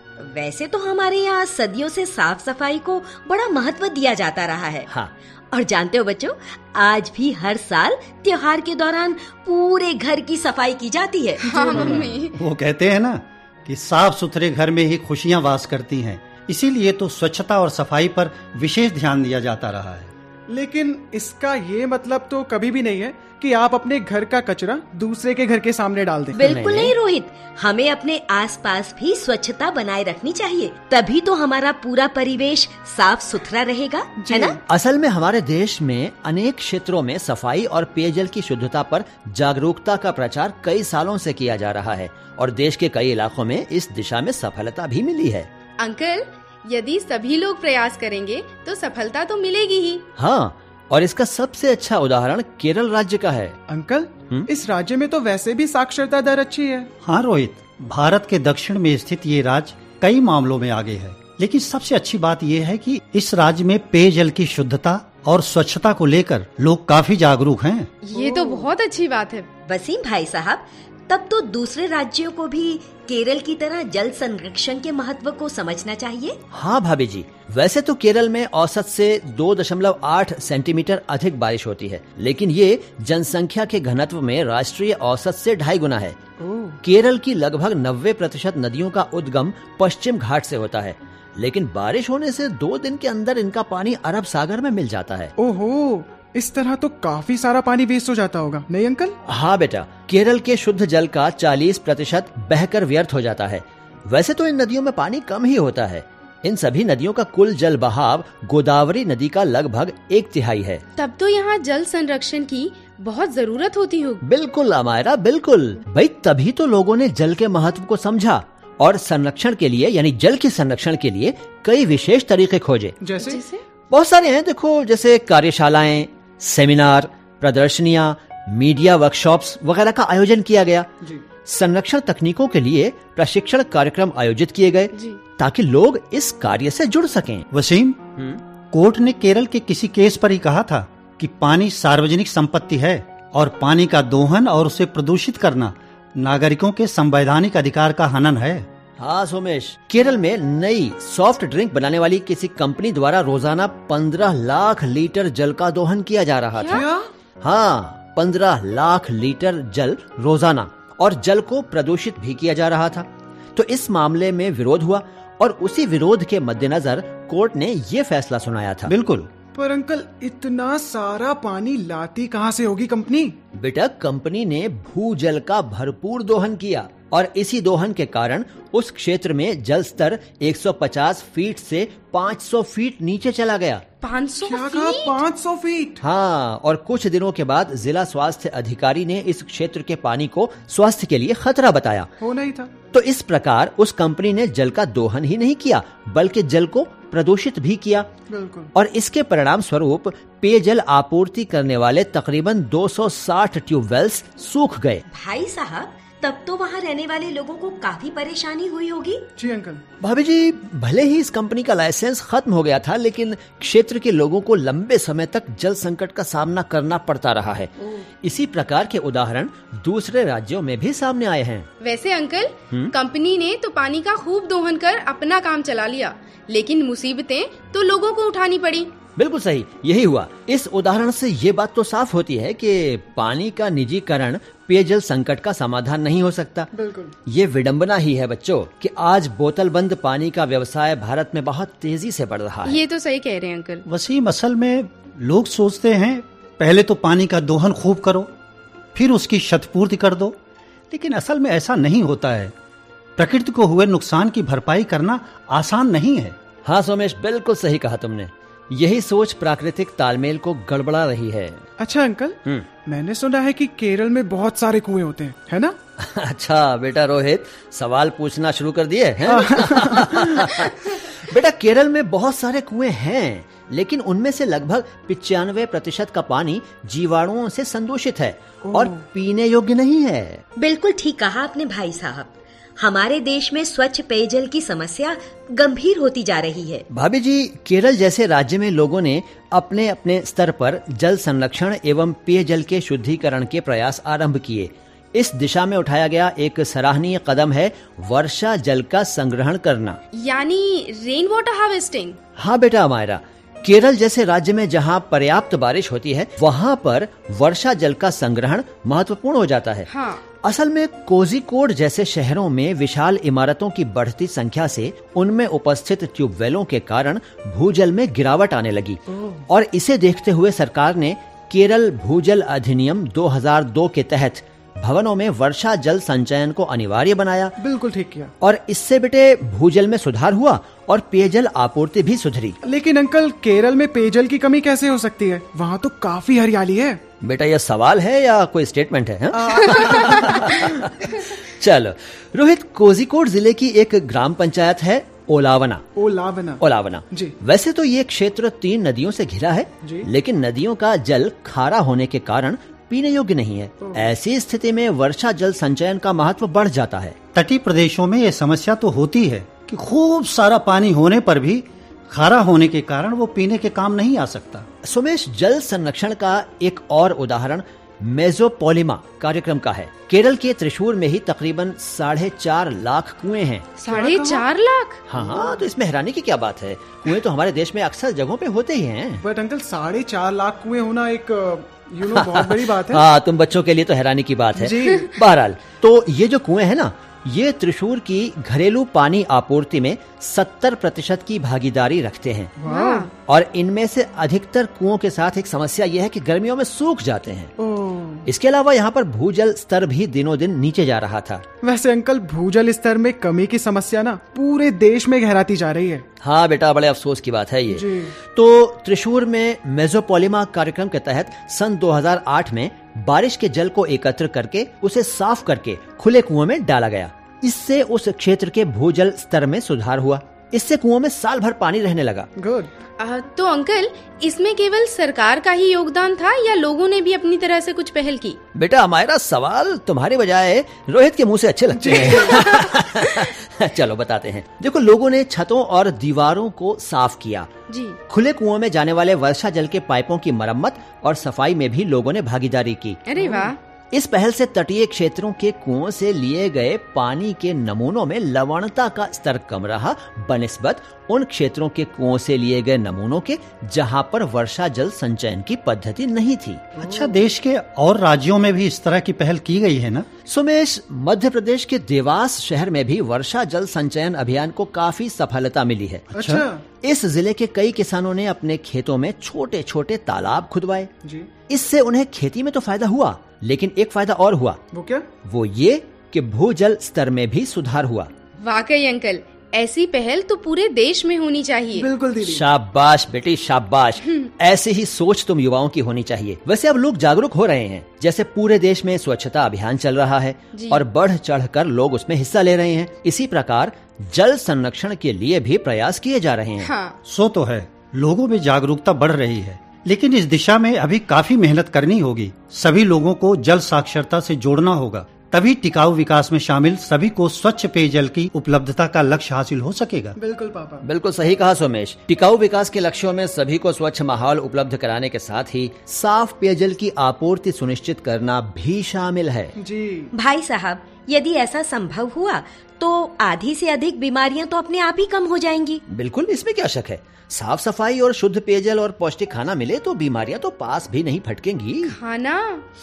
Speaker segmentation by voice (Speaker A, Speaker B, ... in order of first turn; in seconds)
Speaker A: 0.2-4.9, 5.5-12.0, 26.3-34.6, 69.7-76.4, 205.1-209.3, 280.6-286.9, 520.1-525.8
Speaker B: 11.4-12.4, 45.8-50.0, 68.0-69.5, 111.0-114.2, 123.2-123.6, 156.6-156.9, 184.0-185.2, 221.8-228.9, 242.7-243.8, 300.1-302.2, 309.9-310.2, 373.8-375.1, 392.7-393.1, 423.0-428.4, 437.7-438.0, 443.1-443.6, 478.4-481.9, 490.6-490.8, 496.6-497.0, 531.9-532.6
Speaker C: 11.7-12.1, 20.5-26.4, 34.2-34.6, 53.7-56.9, 68.1-68.7, 86.4-86.8, 95.4-99.2, 123.0-123.4, 156.7-157.1, 169.5-173.4, 184.4-186.0, 192.2-192.7, 198.3-198.7, 209.4-209.8, 236.7-237.1, 261.8-265.8, 269.2-270.3, 278.6-279.0, 319.1-319.4, 327.6-328.3, 332.6-337.0, 339.3-340.7, 346.0-347.4, 349.8-350.1, 353.8-354.1, 373.9-374.5, 375.1-375.6, 379.2-383.0, 384.6-385.1, 392.6-393.1, 397.6-398.3, 401.6-406.1, 407.7-408.1, 422.4-422.7, 431.8-432.5, 456.8-457.1, 466.1-466.6, 471.0-471.3, 474.7-475.1, 481.8-482.4, 510.2-510.9, 519.6-520.1
Speaker D: 12.3-20.1, 57.0-67.9, 137.5-148.7, 168.9-169.3, 243.9-248.3, 248.9-250.4, 250.9-252.5, 253.2-256.4, 357.3-364.7, 456.8-460.1, 466.1-466.5, 497.1-510.2
Speaker E: 26.4-26.9, 34.7-45.5, 50.2-53.6, 76.5-86.2, 86.8-95.3, 99.2-110.8, 114.2-123.0, 123.9-130.9, 131.4-137.5, 149.0-156.9, 157.4-168.9, 173.5-183.8, 186.0-192.1, 192.9-198.1, 198.8-205.0, 210.0-221.7, 229.2-236.7, 237.3-242.8, 256.6-261.6, 266.0-280.4, 286.9-300.0, 302.4-309.9, 310.4-327.6, 328.4-332.6, 337.2-345.9, 346.6-357.2, 364.8-373.7, 375.1-379.2, 382.1-392.5, 393.3-397.5, 398.3-401.4, 406.2-422.3, 428.6-437.5, 438.1-443.3, 443.9-456.7, 460.3-466.1, 466.8-470.9, 471.5-474.6, 475.2-478.1, 482.2-496.7, 510.8-519.5, 525.9-532.0